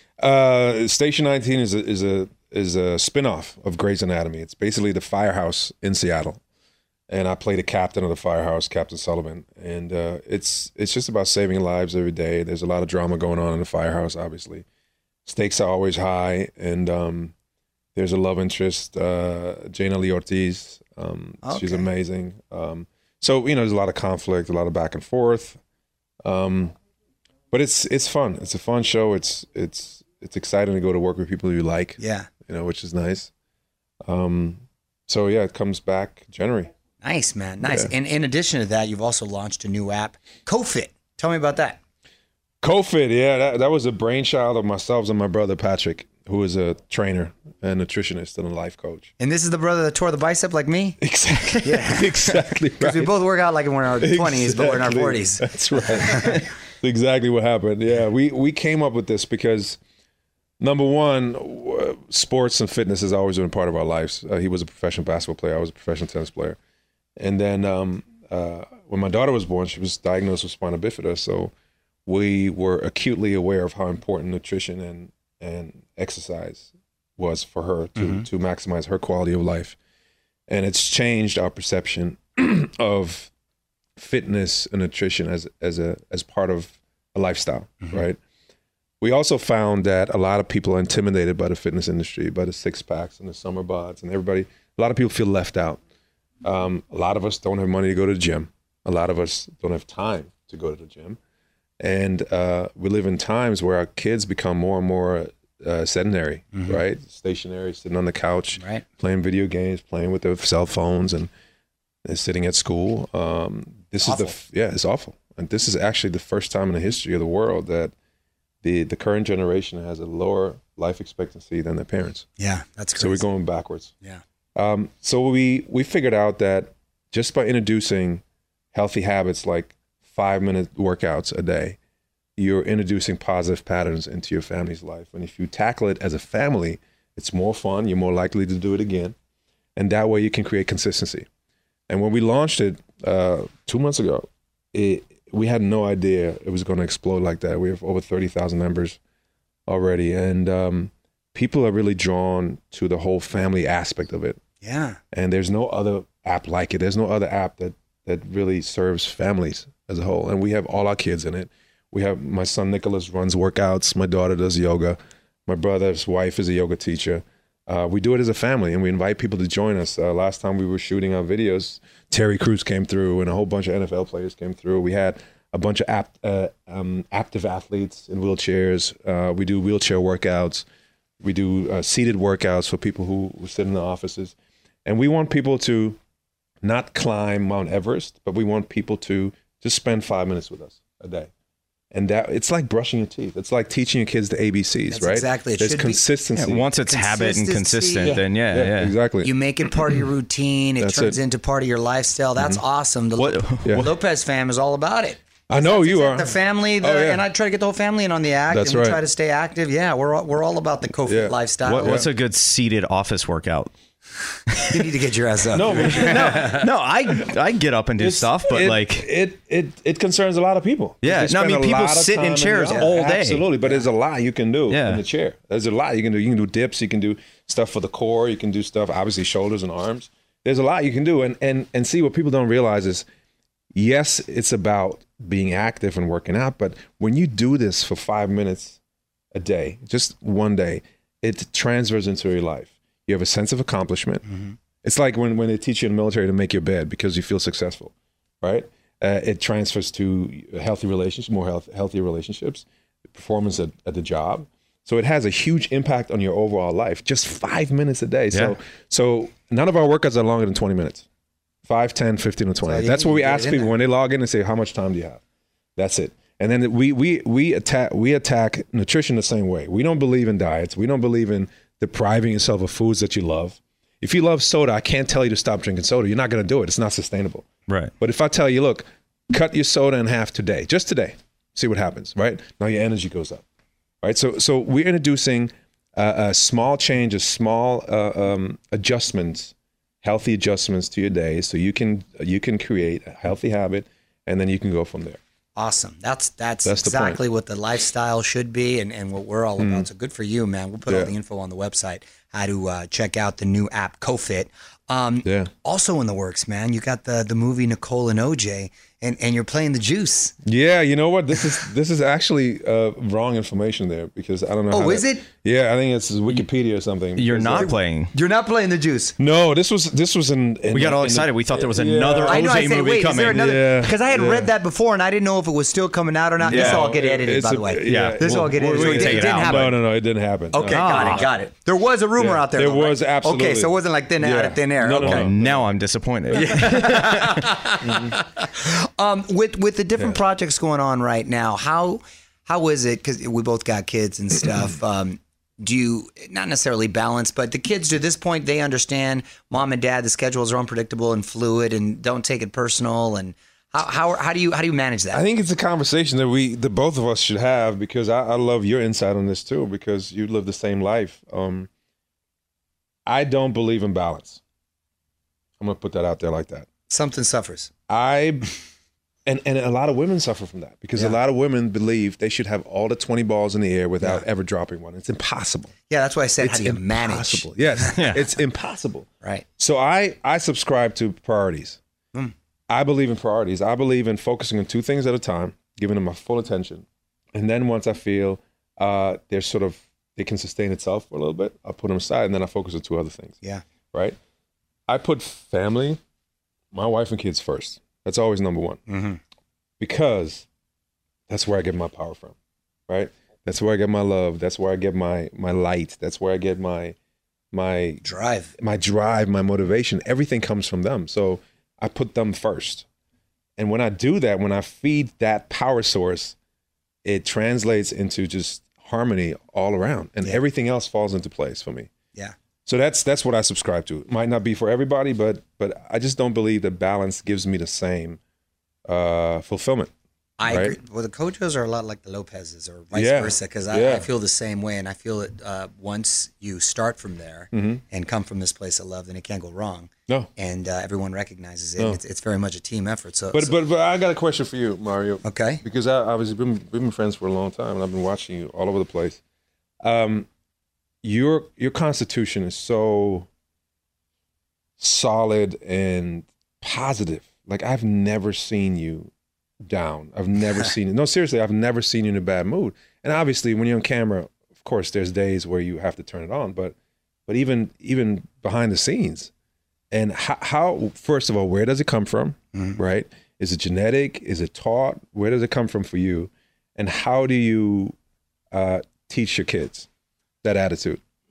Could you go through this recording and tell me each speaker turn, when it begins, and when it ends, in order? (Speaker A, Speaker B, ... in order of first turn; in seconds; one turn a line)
Speaker A: 0.2-6.4
Speaker A: 7.1-14.6
Speaker A: 15.2-17.3
Speaker A: 17.9-25.6
Speaker B: 21.4-21.9
Speaker A: 26.2-26.7
Speaker A: 27.5-33.3
Speaker B: 32.0-32.3
Speaker A: 34.0-36.7
Speaker B: 37.0-41.8
Speaker A: 37.6-37.9
Speaker A: 42.6-49.1
Speaker B: 49.2-51.0
Speaker A: 51.0-53.1
Speaker B: 51.6-55.5
Speaker A: 54.0-59.8
Speaker B: 56.1-56.4
Speaker A: 60.6-66.6
Speaker A: 67.2-71.5
Speaker A: 72.0-79.8
Speaker B: 78.0-78.2
Speaker A: 80.5-83.3
Speaker A: 84.0-88.2
Speaker A: 89.0-95.8
Speaker A: 96.4-101.2
Speaker A: 101.8-111.3
Speaker B: 106.5-106.8
Speaker B: 108.6-108.8
Speaker A: 112.0-117.9
Speaker B: 114.0-114.3
Speaker A: 118.6-122.3
Speaker B: 122.4-123.2
Speaker A: 123.0-123.9
Speaker A: 124.5-131.8
Speaker A: 132.4-139.1
Speaker A: 139.8-141.3
Speaker A: 141.9-149.0
Speaker A: 149.7-154.4
Speaker B: 154.6-155.0
Speaker A: 155.1-180.6
Speaker A: 181.2-186.0
Speaker A: 186.6-191.3
Speaker A: 191.9-196.7
Speaker B: 194.9-196.0
Speaker C: 196.3-198.9
Speaker B: 196.8-198.2
Speaker A: 198.0-199.3
Speaker B: 199.2-212.0
Speaker A: 200.8-201.2
Speaker A: 202.4-202.6
Speaker C: 203.2-203.8
Speaker A: 203.6-203.9
Speaker A: 205.5-207.2
Speaker A: 208.5-209.0
Speaker A: 211.0-212.1
Speaker C: 211.7-213.7
Speaker C: 214.5-214.8
Speaker B: 214.7-216.6
Speaker A: 215.5-216.7
Speaker C: 215.8-219.1
Speaker A: 218.0-233.0
Speaker C: 221.0-223.4
Speaker C: 224.7-225.0
Speaker A: 233.7-238.8
Speaker A: 239.3-244.2
Speaker B: 244.2-244.5
Speaker A: 244.8-261.0
Speaker A: 261.6-265.2
Speaker B: 262.6-263.7
Speaker A: 265.8-277.5
Speaker A: 278.0-283.4
Speaker A: 284.0-295.2
Speaker B: 295.6-310.3
Speaker A: 296.6-297.2
Speaker A: 299.6-299.9
Speaker A: 300.9-301.1
Speaker A: 305.2-305.5
Speaker A: 310.4-317.7
Speaker B: 314.7-315.2
Speaker C: 317.1-318.1
Speaker B: 317.5-319.1
Speaker A: 319.2-322.7
Speaker C: 320.7-323.6
Speaker B: 322.2-329.8
Speaker A: 323.2-324.5
Speaker A: 326.4-331.3
Speaker C: 326.5-326.9
Speaker C: 327.9-329.7
Speaker B: 330.5-335.3
Speaker C: 330.7-331.3
Speaker A: 332.2-335.7
Speaker C: 335.0-337.6
Speaker A: 336.3-336.6
Speaker B: 336.3-355.2
Speaker A: 337.8-338.1
Speaker A: 355.1-361.7
Speaker A: 363.1-364.4
Speaker A: 365.6-366.7
Speaker B: 366.9-367.7
Speaker A: 367.9-368.5
Speaker A: 369.2-375.7
Speaker B: 375.9-378.1
Speaker A: 376.4-381.8
Speaker A: 382.7-393.4
Speaker A: 394.9-396.0
Speaker A: 396.7-398.8
Speaker B: 398.9-399.2
Speaker A: 399.8-400.4
Speaker A: 401.3-402.3
Speaker A: 402.9-406.9
Speaker A: 407.5-408.1
Speaker B: 408.0-408.5
Speaker A: 408.6-412.9
Speaker A: 413.6-416.4
Speaker A: 417.0-421.9
Speaker A: 422.6-428.2
Speaker A: 428.9-429.9
Speaker B: 430.4-443.5
Speaker A: 430.4-430.8
Speaker A: 432.9-434.1
Speaker A: 437.5-437.8
Speaker A: 443.3-449.2
Speaker B: 445.2-445.6
Speaker A: 449.8-450.3
Speaker A: 451.0-453.3
Speaker A: 454.8-459.1
Speaker A: 459.6-466.7
Speaker A: 467.3-469.3
Speaker A: 469.9-477.9
Speaker B: 472.5-472.8
Speaker A: 478.5-479.9
Speaker A: 480.4-481.0